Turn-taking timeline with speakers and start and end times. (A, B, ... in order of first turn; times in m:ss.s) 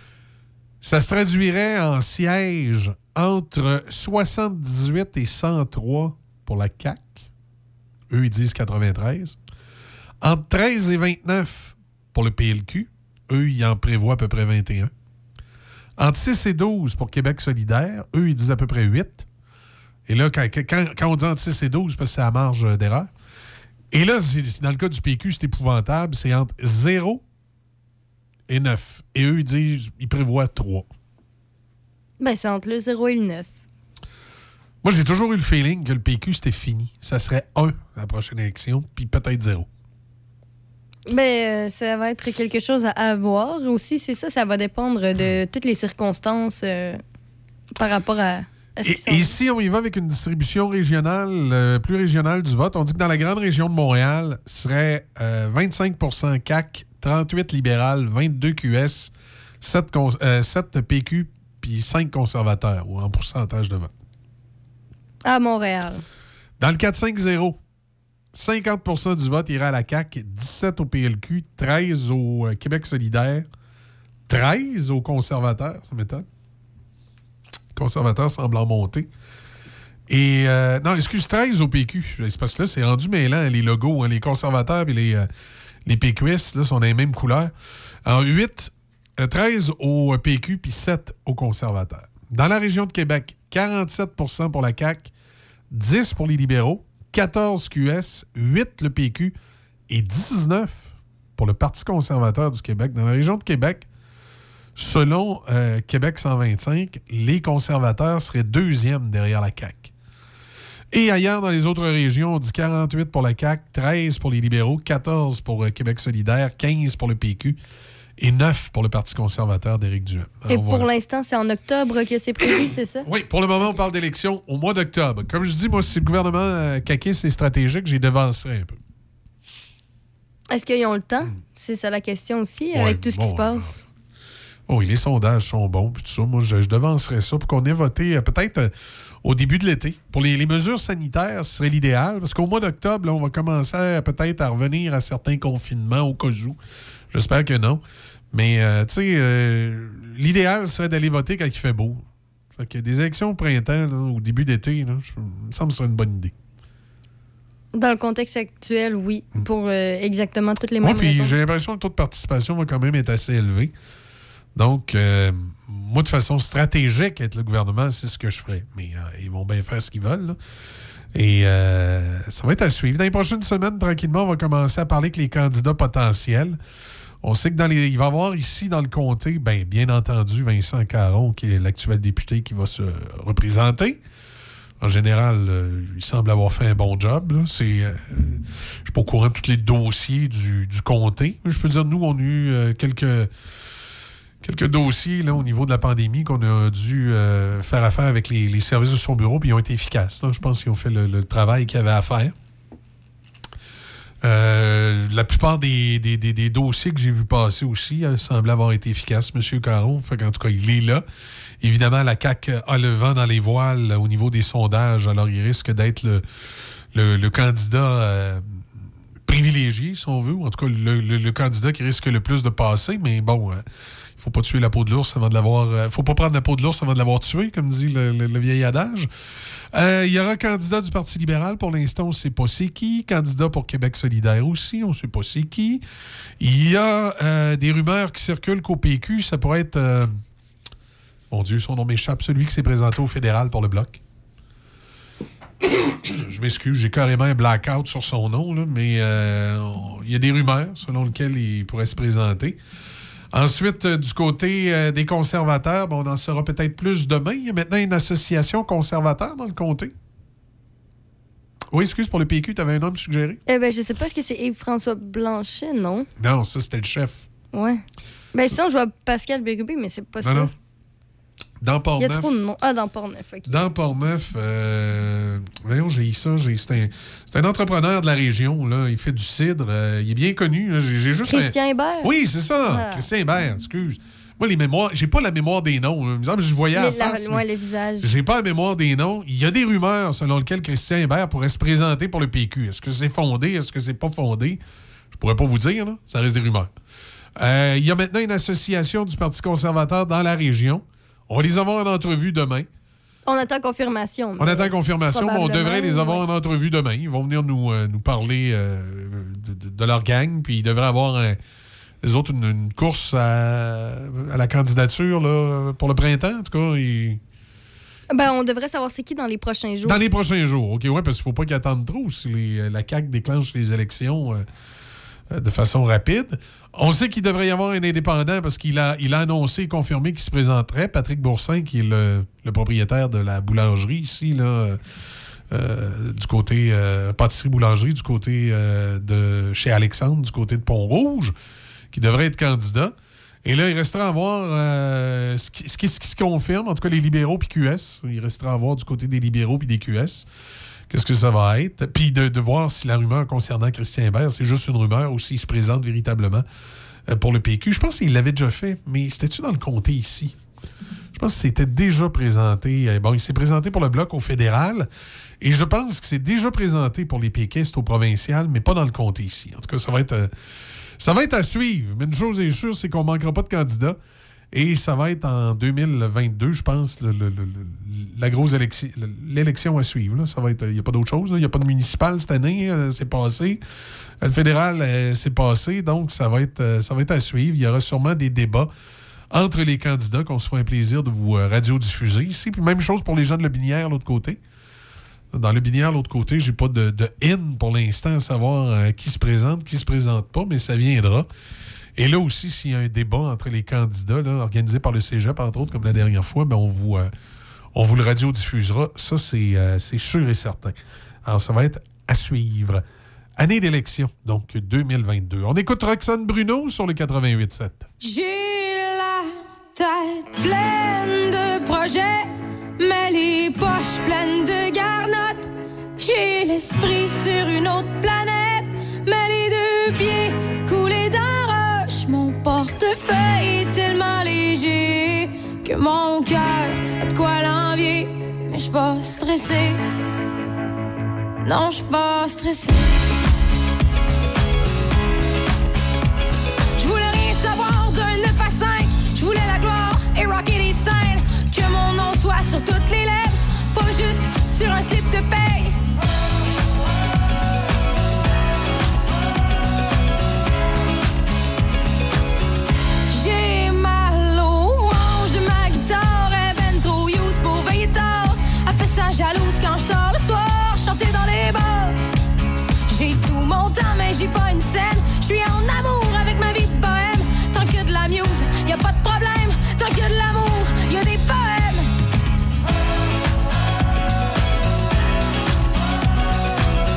0:00.8-0:07.3 A
0:08.1-0:09.4 A
0:10.2-0:14.9 A
0:16.0-0:19.2 A
0:20.1-0:23.1 A
0:23.9-0:27.2 A
0:28.5-0:30.9 A
0:32.2-0:33.5 B
0:34.8-0:39.7 A
0:41.1-0:47.0 B
0:47.8-0:49.3 B
0:48.8-1:03.9 A
1:05.2-1:06.0 B
1:06.6-1:07.6 A
1:08.3-1:13.5 A
1:14.3-1:16.2 A
1:17.7-1:19.1 A
1:20.1-1:25.3 A
1:25.8-1:27.5 A
1:28.0-1:35.1 A
1:35.7-1:39.3 A
1:39.9-1:43.9 A
1:44.8-1:49.9 A
1:50.9-1:57.6 A
1:58.2-2:00.9 A
2:00.5-2:03.1 B
2:03.0-2:08.8 A
2:10.5-2:13.8 B
2:12.7-2:13.8 A
2:14.7-2:18.7 A
2:19.2-2:26.6 A
2:27.1-2:32.0 A
2:32.6-2:36.3 A
2:37.7-2:41.4 B
2:40.8-2:43.7 A
2:44.5-2:50.4 A
2:51.1-2:56.6 A
2:57.2-3:04.0 A
3:04.8-3:13.3 A
3:14.4-3:22.3 A
3:24.2-3:31.0 A
3:31.6-3:36.2 A
3:36.9-3:38.6 A
3:39.2-3:43.6 A
3:44.2-3:49.1 A
3:49.7-3:55.8 A
3:56.4-4:00.2 A
4:01.3-4:04.0 A
4:05.7-4:12.6 A
4:13.3-4:19.9 A
4:21.7-4:23.4 A
4:23.5-4:26.1 B
4:26.2-4:27.2 A
4:27.5-4:27.8 B
4:28.3-4:30.5 B
4:30.2-4:30.5 A
4:31.6-4:32.3 A
4:32.0-4:33.6 B
4:33.4-4:47.4 A
4:41.2-4:42.1 B
4:42.6-4:43.0 B
4:46.7-4:48.1 B
4:48.0-4:54.6 A
4:55.1-4:56.7 A
4:57.4-5:02.7 A
5:03.2-5:06.2 B
5:04.4-5:11.4 A
5:12.0-5:17.2 A
5:18.1-5:20.0 B
5:19.8-5:24.4 A
5:25.3-5:34.8 A
5:35.5-5:41.3 A
5:41.9-5:50.3 A
5:50.9-5:56.4 A
5:57.1-6:00.4 A
6:01.1-6:04.9 A
6:05.4-6:10.3 A
6:11.0-6:14.0 A
6:14.5-6:23.6 A
6:24.2-6:28.7 A
6:29.3-6:34.4 A
6:35.3-6:41.3 A
6:42.0-6:47.1 A
6:47.7-6:52.8 A
6:53.4-6:57.9 A
6:58.0-7:05.5 C
7:06.0-7:19.8 C
7:21.4-7:22.9 C
7:26.8-7:35.8 C
7:43.1-7:52.0 C
7:52.9-8:01.9 C